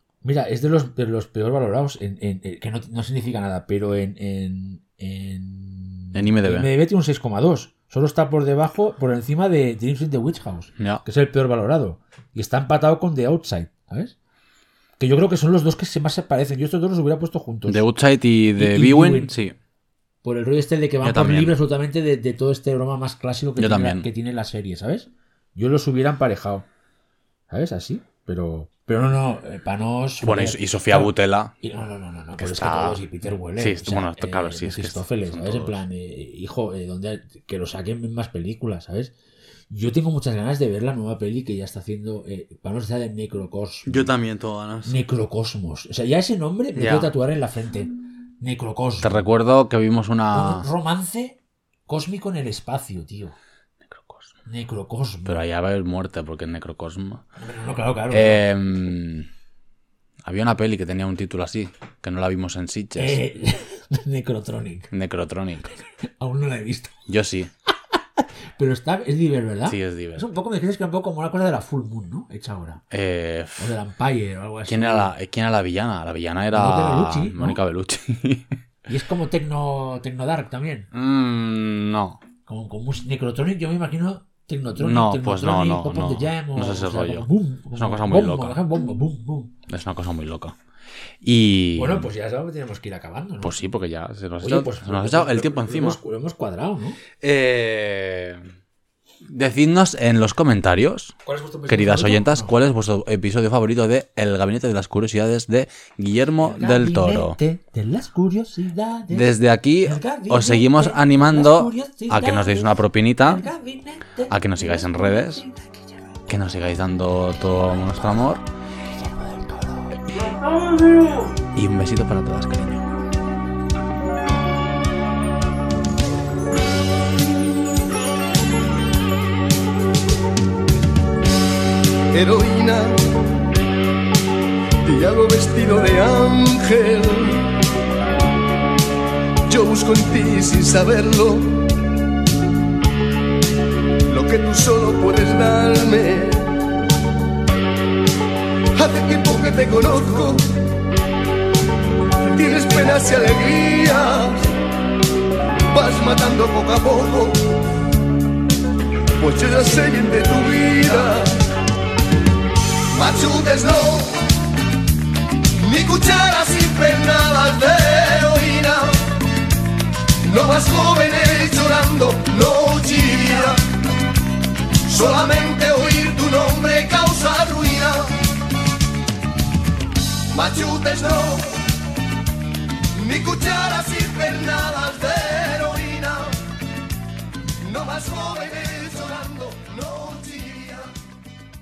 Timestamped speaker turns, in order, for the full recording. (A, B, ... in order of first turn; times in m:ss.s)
0:00.2-0:14.2 A
0:06.1-0:06.7 B
0:15.0-0:17.8 A
0:17.7-0:19.6 B
0:18.6-0:19.3 A
0:20.2-0:26.7 A
0:21.0-0:21.5 B
0:23.6-0:24.1 B
0:27.5-0:39.1 A
0:30.2-0:31.5 B
0:32.4-0:33.0 B
0:33.6-0:35.8 B
0:39.7-0:44.1 A
0:43.8-0:45.0 B
0:44.8-0:49.2 A
0:46.7-0:47.1 B
0:49.0-0:50.7 B
0:50.3-0:53.4 A
0:53.8-0:54.3 B
0:54.4-0:55.4 A
0:55.2-0:57.2 B
0:57.4-0:58.4 A
0:58.1-0:59.3 B
1:00.2-1:03.2 B
1:03.0-1:04.9 A
1:04.9-1:05.7 B
1:06.2-1:07.0 A
1:07.1-1:07.5 B
1:07.9-1:12.8 A
1:09.7-1:10.2 B
1:12.9-1:13.7 B
1:13.6-1:15.1 A
1:14.7-1:18.5 B
1:16.5-1:17.6 A
1:18.9-1:20.9 A
1:20.9-1:22.2 B
1:22.4-1:29.5 A
1:24.8-1:28.6 B
1:29.7-1:30.5 B
1:31.2-1:32.1 B
1:31.7-1:33.6 A
1:33.4-1:36.0 B
1:34.4-1:37.0 A
1:37.2-1:38.5 B
1:39.2-1:41.1 B
1:41.2-1:42.6 A
1:41.7-1:47.4 B
1:46.4-1:56.4 A
1:49.1-1:53.4 B
1:54.3-1:55.4 B
1:56.3-1:58.4 B
1:57.5-1:58.1 A
1:58.9-2:01.3 A
2:01.5-2:02.9 B
2:12.1-2:13.0 C
2:14.8-2:17.5 C
2:19.5-2:21.6 C
2:24.1-2:26.5 C
2:28.7-2:30.4 C
2:32.3-2:34.5 C
2:35.7-2:37.5 C
2:39.2-2:41.3 C
2:42.9-2:44.2 C
2:45.6-2:49.1 C
2:50.2-2:53.6 C
2:54.8-2:58.1 C
3:00.3-3:01.6 C
3:02.9-3:06.4 C
3:07.6-3:10.9 C